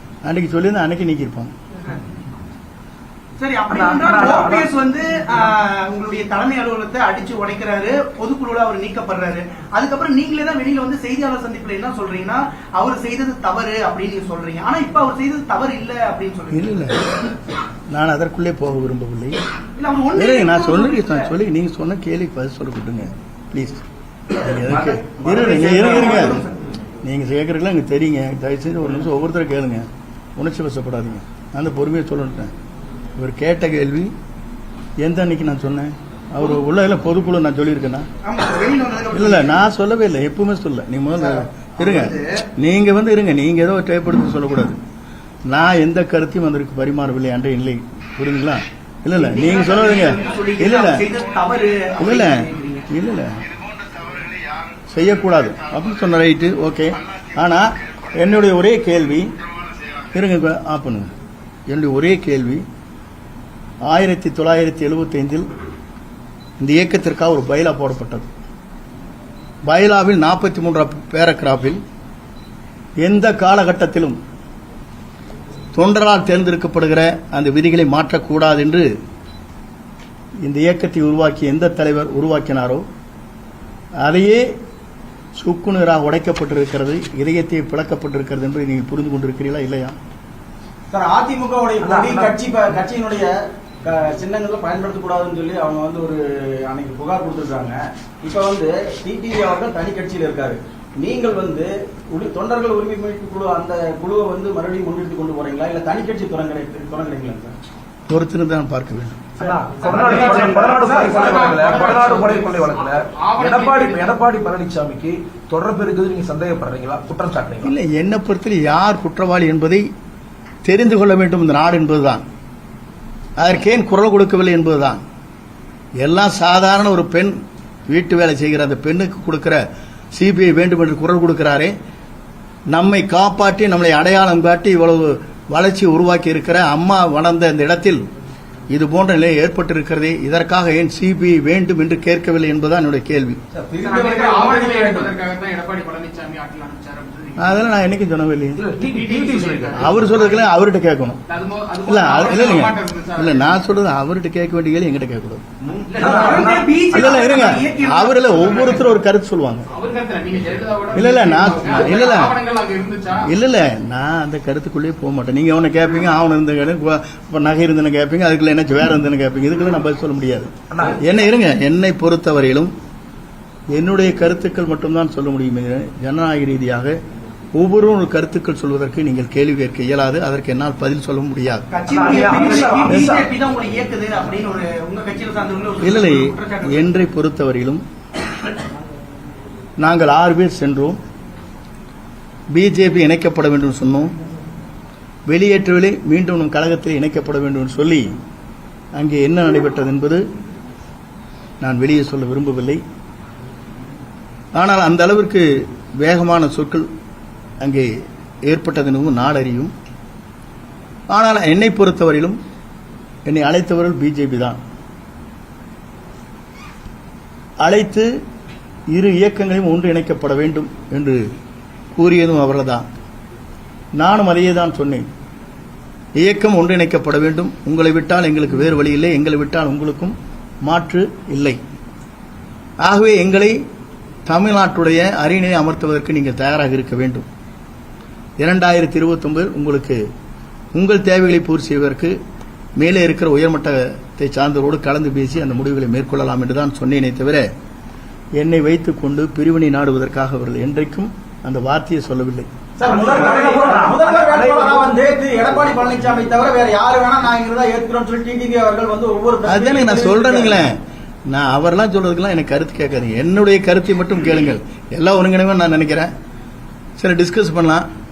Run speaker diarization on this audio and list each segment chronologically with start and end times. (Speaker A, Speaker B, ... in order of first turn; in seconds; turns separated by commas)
Speaker A: 0.2-1.5, Speaker B: 3.4-17.0, Speaker C: 3.7-4.7, Speaker A: 16.5-17.0, Speaker A: 17.9-19.4, Speaker B: 19.8-21.3, Speaker A: 20.1-26.4, Speaker B: 24.7-26.6, Speaker A: 27.0-29.9, Speaker A: 30.4-32.5, Speaker A: 33.1-34.1, Speaker A: 35.0-38.1, Speaker B: 38.2-39.6, Speaker A: 39.1-44.8, Speaker B: 41.2-42.3, Speaker A: 45.5-51.0, Speaker B: 49.1-52.9, Speaker A: 52.0-53.5, Speaker A: 54.9-59.3, Speaker A: 60.1-61.1, Speaker A: 61.7-62.6, Speaker A: 63.9-65.5, Speaker A: 66.6-68.3, Speaker A: 69.7-71.8, Speaker A: 73.0-74.2, Speaker A: 75.7-78.8, Speaker A: 80.4-82.8, Speaker A: 84.0-84.5, Speaker A: 85.3-90.0, Speaker D: 90.9-107.5, Speaker C: 91.8-92.3, Speaker A: 108.1-109.2, Speaker C: 109.4-117.7, Speaker E: 109.8-114.1, Speaker A: 117.6-119.8, Speaker A: 120.6-122.2, Speaker A: 123.4-125.0, Speaker A: 126.0-127.3, Speaker A: 127.9-129.6, Speaker A: 130.1-131.7, Speaker A: 132.7-138.0, Speaker A: 138.7-143.4, Speaker D: 143.5-145.1, Speaker E: 143.8-147.7, Speaker A: 147.4-148.7, Speaker C: 148.6-149.9, Speaker E: 148.8-150.4, Speaker A: 149.7-151.2, Speaker E: 151.3-153.5, Speaker A: 151.8-155.4, Speaker C: 155.7-156.7, Speaker E: 155.9-156.2, Speaker B: 156.0-158.7, Speaker A: 156.9-159.7, Speaker E: 159.7-163.3, Speaker A: 160.9-162.4, Speaker A: 163.2-172.7, Speaker C: 170.7-171.0, Speaker A: 173.7-176.9, Speaker A: 177.6-181.7, Speaker B: 181.7-186.9, Speaker C: 181.9-183.3, Speaker A: 185.8-187.8, Speaker A: 189.8-191.0, Speaker A: 192.5-194.1, Speaker A: 195.3-198.1, Speaker A: 198.9-200.2, Speaker A: 201.6-202.8, Speaker A: 204.5-206.9, Speaker A: 207.6-207.9, Speaker A: 208.4-209.7, Speaker A: 211.1-212.4, Speaker A: 213.2-214.6, Speaker A: 217.6-218.1, Speaker A: 218.9-221.2, Speaker A: 221.9-222.8, Speaker A: 223.9-225.1, Speaker A: 226.2-231.6, Speaker A: 232.8-233.6, Speaker A: 234.2-237.2, Speaker A: 238.4-240.0, Speaker A: 240.7-242.1, Speaker A: 242.8-247.4, Speaker A: 248.4-252.5, Speaker C: 252.8-254.9, Speaker D: 252.8-260.6, Speaker A: 259.4-260.8, Speaker A: 261.3-266.1, Speaker A: 267.0-267.8